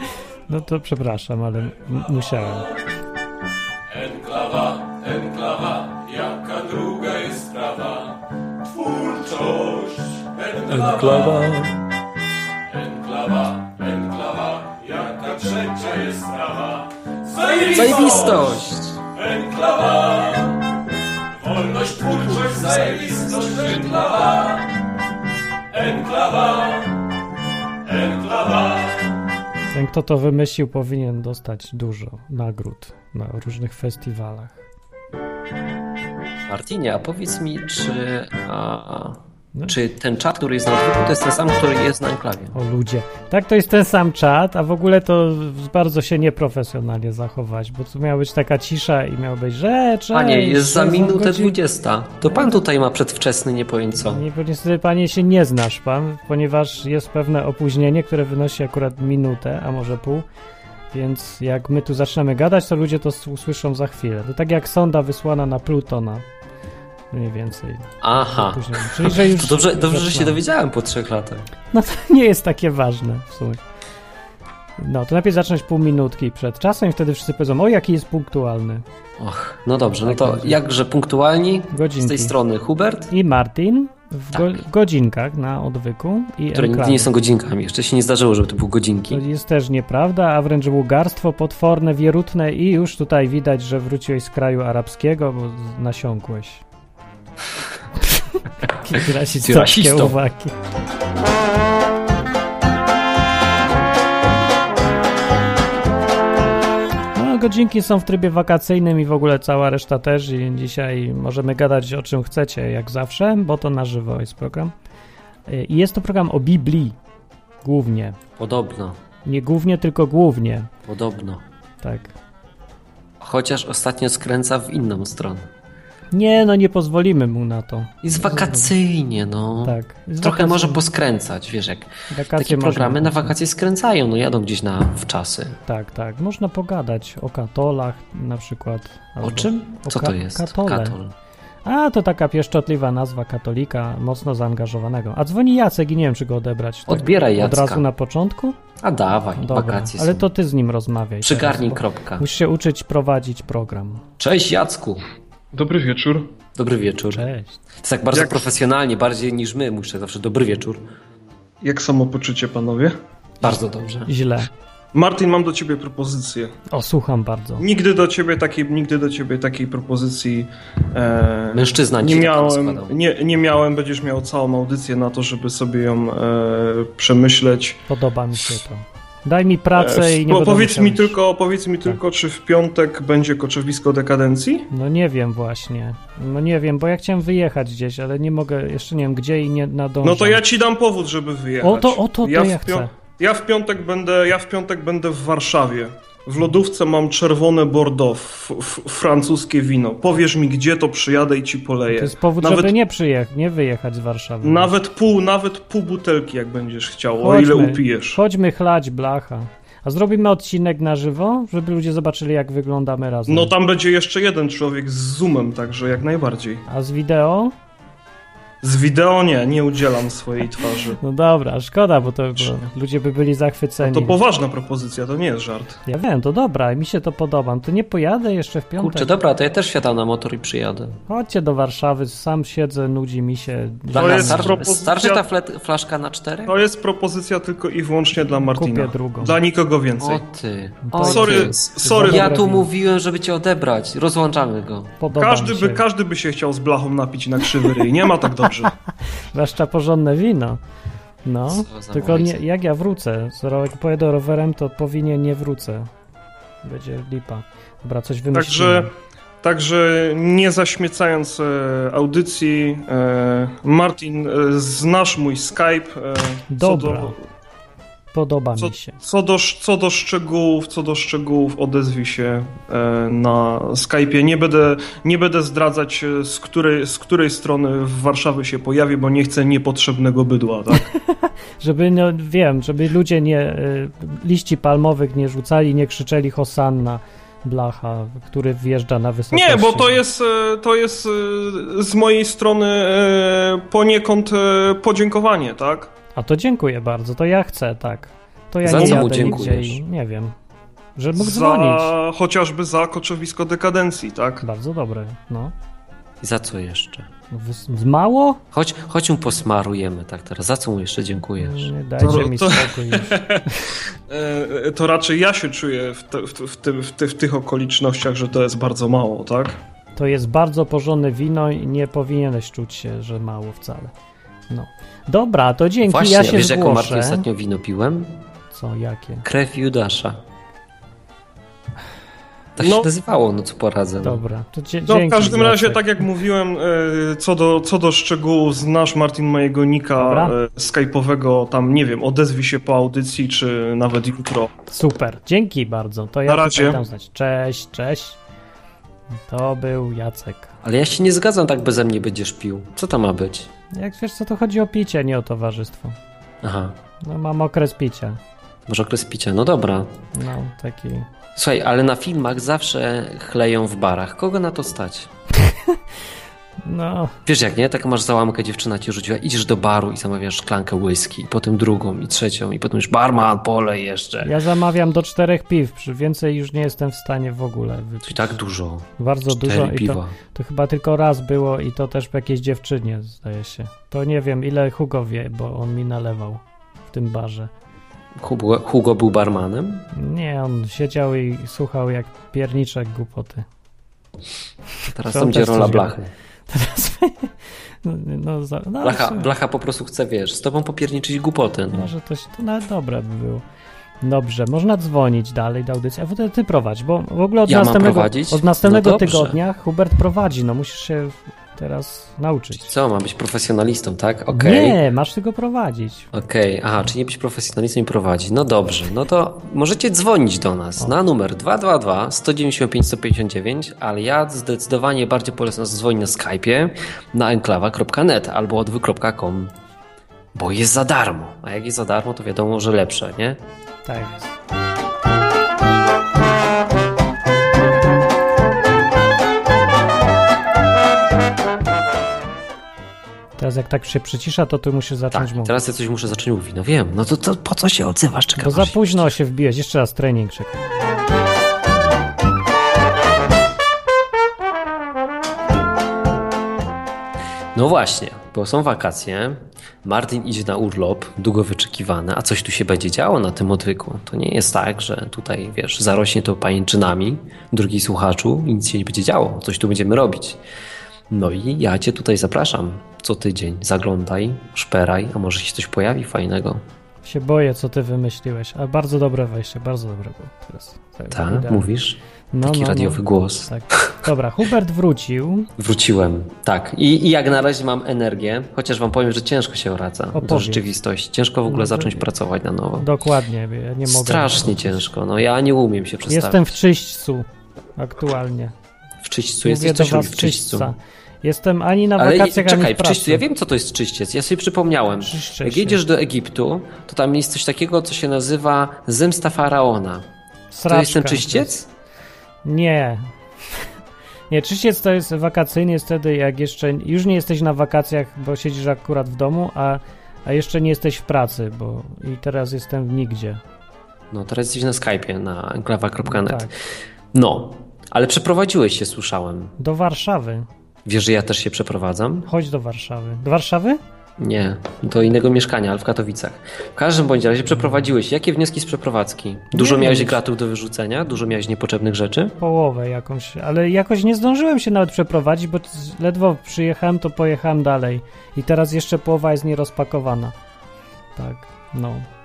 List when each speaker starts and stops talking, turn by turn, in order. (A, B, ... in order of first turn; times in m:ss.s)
0:00.5-0:02.7 A
0:03.9-0:11.5 B
0:10.7-0:11.7 C
0:12.7-0:20.6 B
0:17.7-0:19.0 C
0:21.4-0:24.7 B
0:25.7-0:26.9 B
0:27.8-0:29.0 B
0:29.7-0:34.6 A
0:36.5-0:42.5 C
0:42.5-0:51.6 A
0:50.1-0:54.2 C
0:52.2-0:52.5 A
0:54.0-1:00.2 A
1:00.9-1:06.2 A
1:07.1-1:10.4 A
1:08.0-1:11.4 C
1:11.7-1:13.6 A
1:14.8-1:18.8 A
1:19.2-1:23.1 C
1:20.0-1:20.6 A
1:21.7-1:22.3 A
1:23.1-1:27.1 A
1:24.3-1:24.6 C
1:26.5-1:29.2 C
1:29.1-1:36.6 A
1:38.0-1:40.5 A
1:38.9-1:40.2 C
1:47.1-1:54.7 A
1:55.5-1:56.9 A
1:57.6-1:58.2 A
1:58.4-1:59.0 C
1:59.2-2:00.7 A
2:00.8-2:01.4 C
2:01.8-2:02.1 A
2:03.2-2:05.5 C
2:06.1-2:08.7 A
2:08.0-2:15.6 C
2:09.6-2:10.8 A
2:12.1-2:13.3 A
2:15.6-2:21.0 A
2:19.2-2:21.1 C
2:21.6-2:28.6 A
2:26.9-2:27.8 C
2:28.8-2:30.3 C
2:29.4-2:34.0 A
2:31.2-2:32.3 C
2:34.2-2:35.0 C
2:35.5-2:36.3 D
2:36.5-2:37.2 C
2:37.1-2:37.6 A
2:37.8-2:40.8 C
2:38.1-2:38.4 D
2:41.6-2:42.9 D
2:43.4-2:44.1 C
2:44.0-2:44.5 A
2:44.9-2:46.5 D
2:46.7-2:47.6 A
2:47.6-2:57.8 D
2:51.5-2:52.9 C
2:57.9-3:01.2 A
2:59.8-3:04.7 D
3:04.7-3:10.4 A
3:10.0-3:22.7 D
3:11.6-3:12.9 A
3:21.9-3:24.7 A
3:24.4-3:28.2 D
3:27.2-3:33.5 A
3:33.3-3:36.6 D
3:36.7-3:37.5 A
3:38.6-3:41.0 D
3:41.0-3:44.2 A
3:43.8-3:45.8 D
3:45.9-3:49.1 A
3:48.8-3:51.0 C
3:51.1-3:54.7 A
3:53.9-3:56.6 C
3:54.0-3:55.2 D
3:56.5-4:00.2 D
3:58.5-3:59.4 A
4:00.0-4:04.9 C
4:00.9-4:02.6 A
4:01.1-4:02.3 D
4:05.0-4:05.8 A
4:05.1-4:08.7 D
4:09.3-4:10.6 A
4:11.2-4:15.9 A
4:11.5-4:12.4 C
4:16.6-4:18.9 A
4:18.3-4:18.9 D
4:19.4-4:27.2 D
4:26.5-4:27.2 A
4:28.1-4:29.0 A
4:28.6-4:40.9 D
4:40.7-4:50.0 A
4:49.3-4:55.9 D
4:56.2-5:00.3 A
4:58.6-4:59.8 C
5:01.0-5:01.9 A
5:01.2-5:04.4 D
5:04.4-5:05.5 A
5:06.2-5:07.1 C
5:07.3-5:08.4 A
5:08.5-5:11.7 C
5:11.4-5:13.7 A
5:12.0-5:13.4 D
5:14.1-5:19.6 D
5:20.0-5:23.9 A
5:24.5-5:27.2 A
5:25.8-5:28.1 C
5:28.5-5:29.2 A
5:29.2-5:30.2 C
5:32.6-5:34.2 C
5:32.6-5:32.8 D
5:34.0-5:35.9 A
5:34.9-5:44.5 D
5:40.0-5:40.3 A
5:44.7-5:48.2 A
5:46.3-5:46.8 D
5:49.3-5:50.5 A
5:50.6-5:53.5 C
5:53.7-5:56.0 A
5:56.4-5:56.8 C
5:57.0-5:58.2 A
5:58.6-5:59.9 C
6:00.1-6:01.1 A
6:01.3-6:05.1 C
6:05.4-6:05.8 A
6:06.6-6:07.1 A
6:07.2-6:14.4 C
6:14.2-6:18.4 A
6:18.0-6:20.1 C
6:19.0-6:27.5 A
6:28.2-6:29.9 C
6:29.9-6:33.4 A
6:34.9-6:36.1 C
6:35.0-6:36.0 A
6:36.5-6:39.3 A
6:38.8-6:41.9 C
6:41.7-6:43.4 A
6:44.0-6:52.8 A
6:47.4-6:49.4 C
6:52.6-6:54.8 C
6:54.3-6:56.1 A
6:56.1-7:09.5 C
7:10.3-7:13.4 C
7:13.8-7:14.3 A
7:23.4-7:25.5 A
7:25.1-7:29.1 C
7:28.4-7:30.6 A
7:37.5-7:50.4 C
7:51.1-7:56.6 C
7:57.0-8:01.7 A
8:01.1-8:03.9 C
8:02.3-8:05.5 A
8:05.6-8:12.9 C
8:10.1-8:10.6 A
8:11.4-8:12.0 A
8:12.8-8:14.8 A
8:13.8-8:16.5 C
8:16.1-8:17.2 A
8:17.8-8:18.5 A
8:19.0-8:20.7 C
8:19.4-8:23.2 A
8:22.0-8:30.0 C
8:25.0-8:25.8 A
8:30.5-8:31.5 A
8:30.6-8:31.7 C
8:32.4-8:33.6 A
8:34.3-8:43.4 A
8:44.1-8:46.5 C
8:46.0-8:46.5 A
8:47.1-8:49.5 C
8:49.6-8:50.4 A
8:50.8-8:52.3 C
8:52.3-8:53.8 A
8:54.2-9:02.4 C
8:59.5-9:00.2 A
9:02.4-9:10.3 A
9:11.2-9:12.0 A